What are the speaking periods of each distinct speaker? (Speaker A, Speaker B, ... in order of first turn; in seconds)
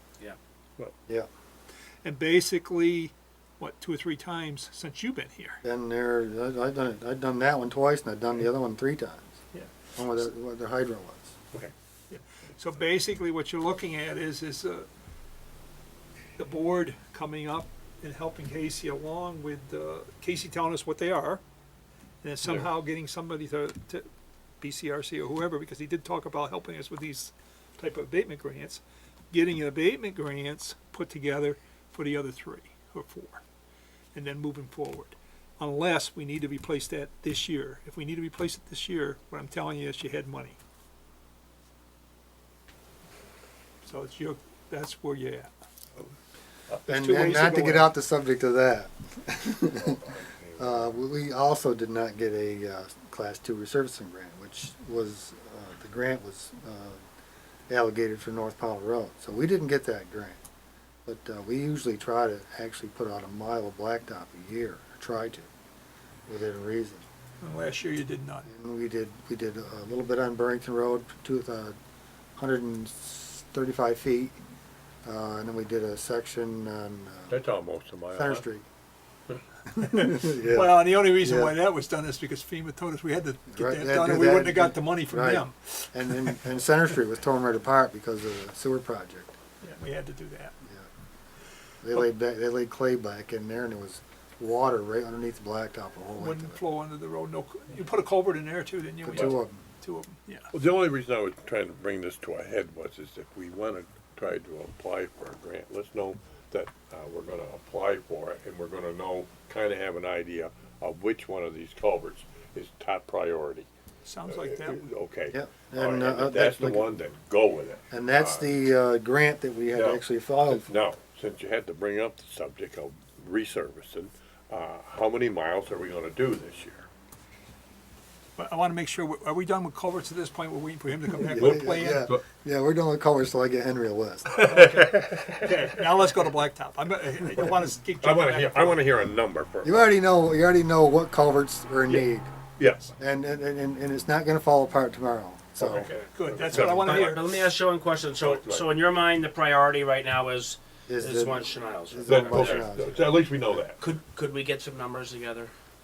Speaker A: 2.0-5.6, 12.1-14.9, 16.4-21.4, 22.2-24.1, 24.6-28.8, 29.3-33.4, 34.1-40.6, 43.8-45.5, 46.9-47.9, 67.4-68.5, 79.8-86.4, 89.6-90.6, 96.2-100.5, 114.0-114.9, 128.4-132.1, 135.4-138.8, 146.1-147.3
Speaker B: 5.6-9.3, 9.9-11.3, 46.9-50.0, 50.6-57.0, 57.7-60.4, 61.0-65.5, 66.3-67.0, 68.5-71.8, 72.4-74.4, 75.0-77.4, 78.1-78.6, 79.7-81.6, 83.5-89.3, 91.8-96.6, 99.0-99.6, 115.3-116.9, 117.9-120.7, 131.1-134.5, 139.6-142.3, 143.0-145.9, 150.9-153.0
Speaker C: 22.4-22.7, 49.7-51.0, 77.3-78.4, 100.5-113.7, 114.3-118.5, 119.7-126.9, 131.2-132.2, 134.3-135.8, 138.0-139.9, 142.6-142.9, 145.6-147.2, 148.2-148.7, 152.1-153.8
Speaker D: 134.4-135.0, 145.7-146.1, 146.7-152.8, 153.8-155.5